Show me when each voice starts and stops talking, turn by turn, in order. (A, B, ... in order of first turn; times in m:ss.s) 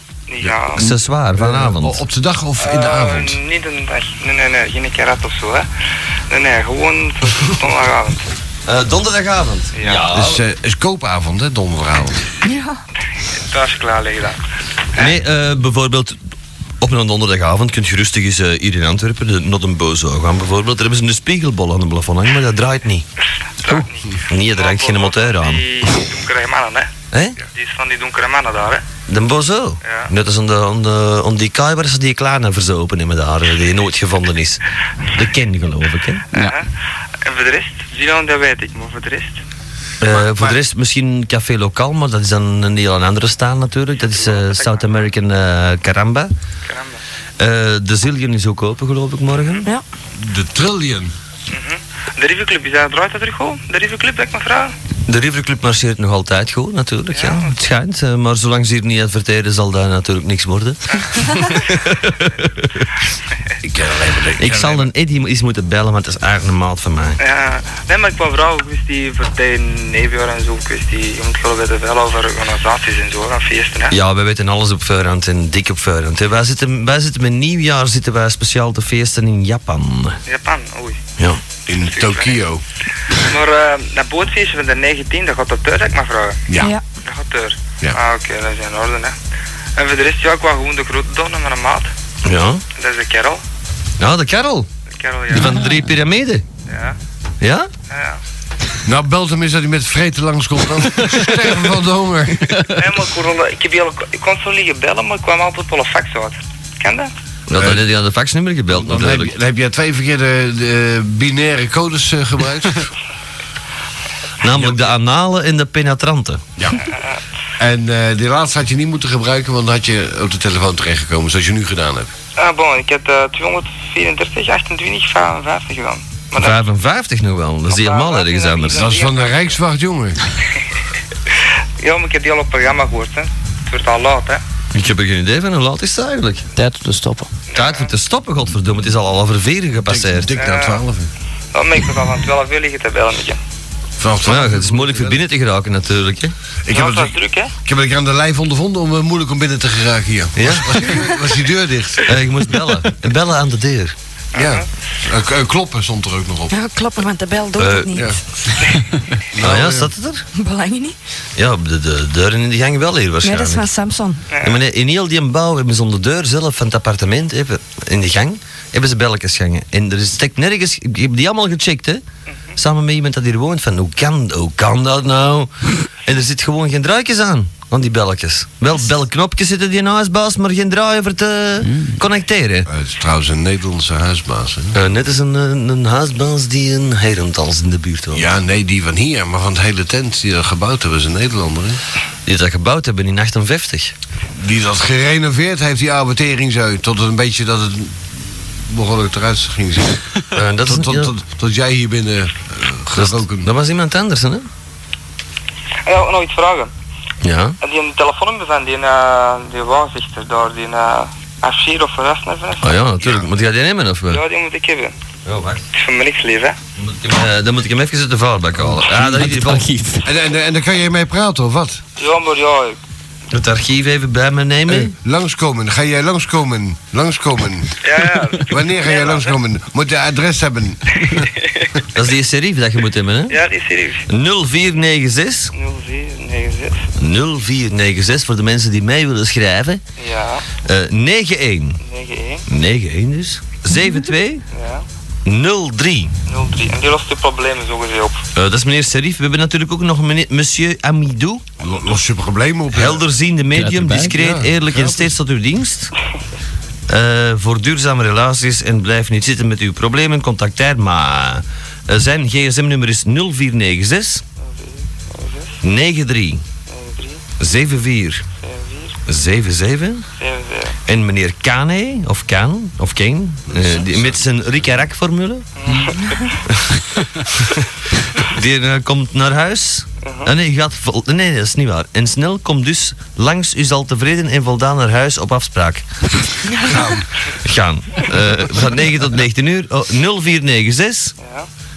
0:00.3-0:00.9 A
0:00.4-0:03.4 B
0:00.7-0:02.0 C
0:02.6-0:05.7 A
0:06.3-0:08.2 A
0:08.6-0:10.4 C
0:09.7-0:10.1 A
0:10.1-0:12.2 B
0:13.5-0:14.4 A
0:15.0-0:16.2 C
0:16.8-0:23.0 C
0:23.6-0:25.6 C
0:23.6-0:26.9 A
0:27.6-0:28.9 A
0:29.1-0:34.6 C
0:29.8-0:30.1 A
0:35.1-0:36.6 C
0:36.3-0:36.7 A
0:37.2-0:39.4 A
0:40.0-0:46.3 C
0:40.1-0:40.6 B
0:44.0-0:45.1 A
0:46.7-0:47.0 A
0:47.4-0:49.7 C
0:50.2-0:51.1 B
0:51.5-0:54.8 A
0:55.1-1:02.8 C
0:57.1-0:57.6 A
1:00.9-1:02.4 A
1:03.6-1:04.9 B
1:04.4-1:07.2 C
1:07.2-1:14.0 A
1:13.9-1:20.2 C
1:20.3-1:21.0 A
1:21.7-1:22.6 B
1:21.7-1:22.5 A
1:23.2-1:26.4 A
1:26.5-1:26.7 B
1:27.0-1:29.2 A
1:29.8-1:31.9 A
1:32.2-1:32.6 C
1:32.8-1:33.4 A
1:34.0-1:34.7 C
1:34.9-1:35.5 A
1:35.3-1:36.4 C
1:35.3-1:35.8 D
1:36.7-1:37.0 A
1:37.4-1:37.7 C
1:37.9-1:38.2 A
1:38.8-1:42.7 B
1:42.7-1:47.1 A
1:47.5-1:49.4 C
1:47.5-1:47.8 B
1:48.7-1:52.9 B
1:54.4-1:56.4 C
1:54.6-1:54.9 B
1:56.8-1:57.2 A
1:57.6-2:02.1 B
2:02.4-2:06.7 A
2:06.4-2:09.0 C
2:07.7-2:09.6 A
2:08.7-2:10.2 B
2:11.8-2:14.4 A
2:14.7-2:16.4 C
2:16.6-2:17.3 D
2:17.5-2:18.0 A
2:17.5-2:20.3 C
2:19.9-2:21.1 B
2:20.4-2:20.8 A
2:21.5-2:23.4 A
2:24.0-2:25.2 B
2:24.2-2:26.4 C
2:26.6-2:32.2 B
2:26.7-2:27.5 A
2:30.4-2:30.9 C
2:32.0-2:34.0 C
2:34.3-2:34.7 A
2:34.4-2:36.5 B
2:36.5-2:38.0 E
2:37.6-2:38.1 C
2:37.9-2:38.2 B
2:39.3-2:39.9 B
2:39.4-2:40.3 C
2:40.4-2:41.0 E
2:41.4-2:43.7 C
2:43.2-2:44.2 E
2:44.3-2:44.6 A
2:44.4-2:52.0 C
2:52.6-3:02.7 C
3:01.6-3:02.0 D
3:02.7-3:04.8 B
3:04.7-3:08.3 C
3:08.1-3:11.8 B
3:12.3-3:14.0 C
3:14.4-3:23.5 B
3:20.3-3:21.1 C
3:23.0-3:24.5 C
3:25.8-3:26.7 A
3:27.2-3:27.6 C
3:27.6-3:32.8 A
3:32.6-3:34.2 C
3:33.0-3:33.3 B
3:34.1-3:35.0 A
3:35.2-3:35.6 C
3:35.7-3:36.6 A
3:36.8-3:39.7 C
3:38.7-3:40.1 D
3:40.0-3:41.8 B
3:42.0-3:42.8 A
3:43.3-3:44.9 C
3:44.7-3:47.8 B
3:47.8-3:49.4 A
3:48.4-3:51.3 B
3:51.0-3:51.7 A
3:51.9-3:53.4 C
3:53.3-3:54.1 A
3:54.1-3:55.5 C
3:55.5-3:56.8 A
3:57.0-3:59.8 C
4:00.0-4:00.5 A
4:00.6-4:01.8 C
4:01.8-4:02.4 A
4:02.5-4:04.4 C
4:04.5-4:04.8 A
4:05.2-4:06.1 C
4:06.3-4:08.2 A
4:08.3-4:11.4 C
4:11.6-4:13.0 B
4:12.7-4:15.9 C
4:13.5-4:14.2 D
4:14.1-4:15.1 B
4:16.9-4:24.2 C
4:24.4-4:25.6 A
4:25.6-4:26.4 C
4:26.7-4:27.2 A
4:27.4-4:28.2 C
4:28.4-4:29.0 A
4:29.1-4:30.0 C
4:30.2-4:30.8 A
4:30.9-4:35.5 C
4:33.5-4:34.2 B
4:35.6-4:36.4 A
4:37.3-4:45.8 C
4:40.0-4:40.3 A
4:46.6-4:47.1 B
4:47.4-4:51.2 C
4:51.2-4:51.5 A